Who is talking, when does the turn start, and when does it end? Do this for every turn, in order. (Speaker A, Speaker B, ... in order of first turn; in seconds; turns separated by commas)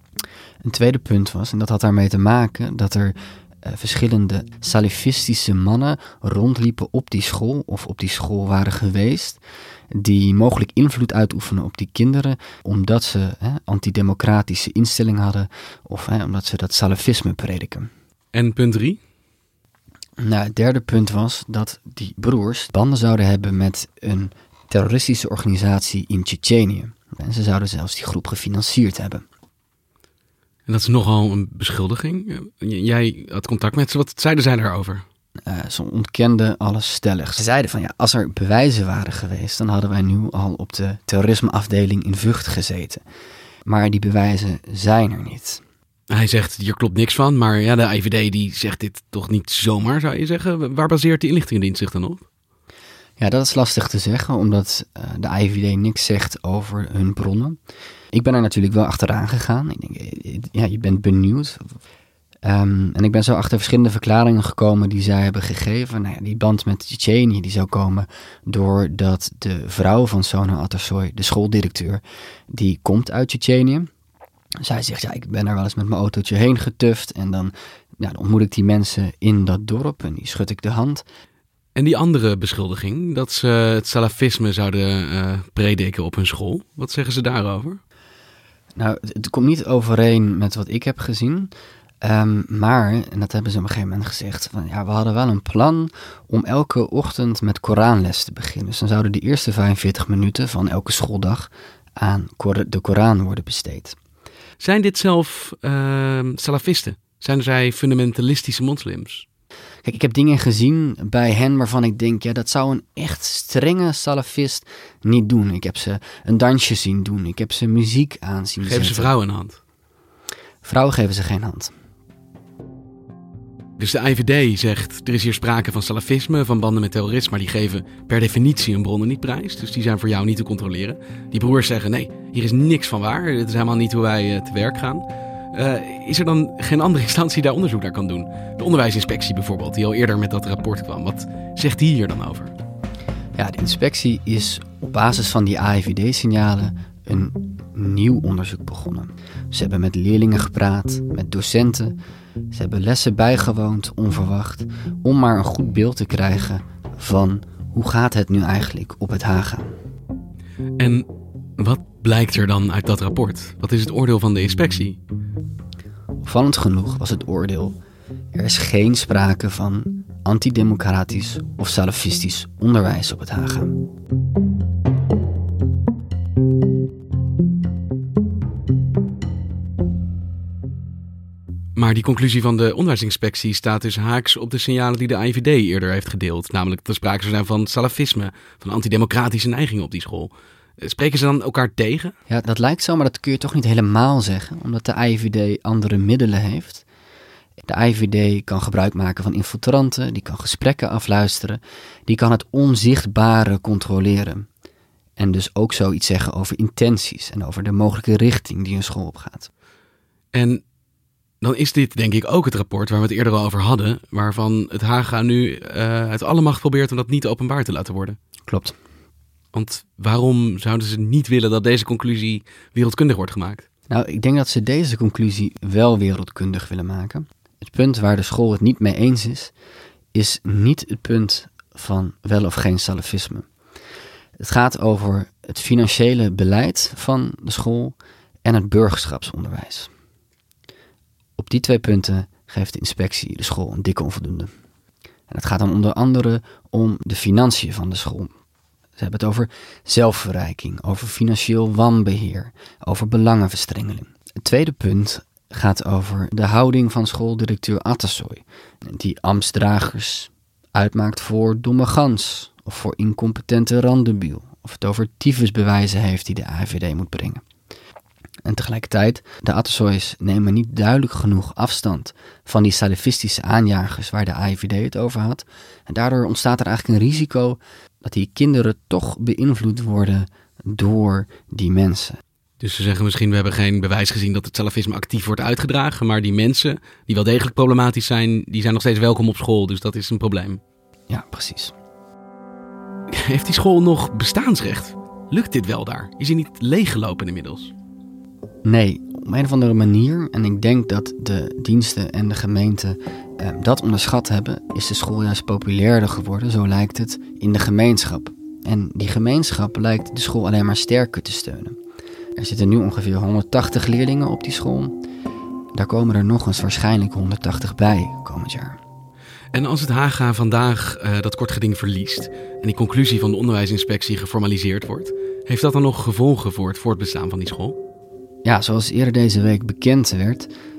Speaker A: 0.6-9.4, Speaker A: 9.9-17.9, Speaker B: 18.3-19.0, Speaker A: 20.2-29.2, Speaker B: 30.7-35.0, Speaker A: 35.5-43.0, Speaker A: 43.6-45.6, Speaker B: 46.1-52.2, Speaker A: 53.2-57.6, Speaker A: 58.1-61.7, Speaker A: 62.4-73.9, Speaker A: 74.6-81.0, Speaker B: 81.8-87.8, Speaker A: 88.8-91.5, Speaker A: 92.0-104.0, Speaker B: 104.6-109.2, Speaker A: 109.8-119.1, Speaker B: 118.6-119.6, Speaker A: 120.6-121.7, Speaker B: 123.8-142.5, Speaker A: 143.3-152.0, Speaker A: 152.5-159.7, Speaker B: 160.8-161.1, Speaker B: 161.6-165.0, Speaker A: 166.2-167.8, Speaker A: 168.3-173.7, Speaker B: 181.8-192.1, Speaker A: 192.3-196.8, Speaker A: 197.7-204.4, Speaker A: 205.2-209.5, Speaker B: 210.3-210.6, Speaker B: 211.4-218.2, Speaker A: 218.5-218.8, Speaker B: 219.5-223.6, Speaker A: 223.9-229.5, Speaker A: 230.1-233.4, Speaker A: 234.4-239.9, Speaker A: 241.4-244.5, Speaker A: 245.3-248.3, Speaker A: 249.0-267.4, Speaker A: 268.4-282.2, Speaker B: 282.6-290.6, Speaker A: 291.1-291.7, Speaker B: 293.1-297.7, Speaker A: 298.6-311.8, Speaker A: 312.4-315.0, Speaker A: 315.7-318.8, Speaker B: 319.5-327.8, Speaker A: 328.4-330.5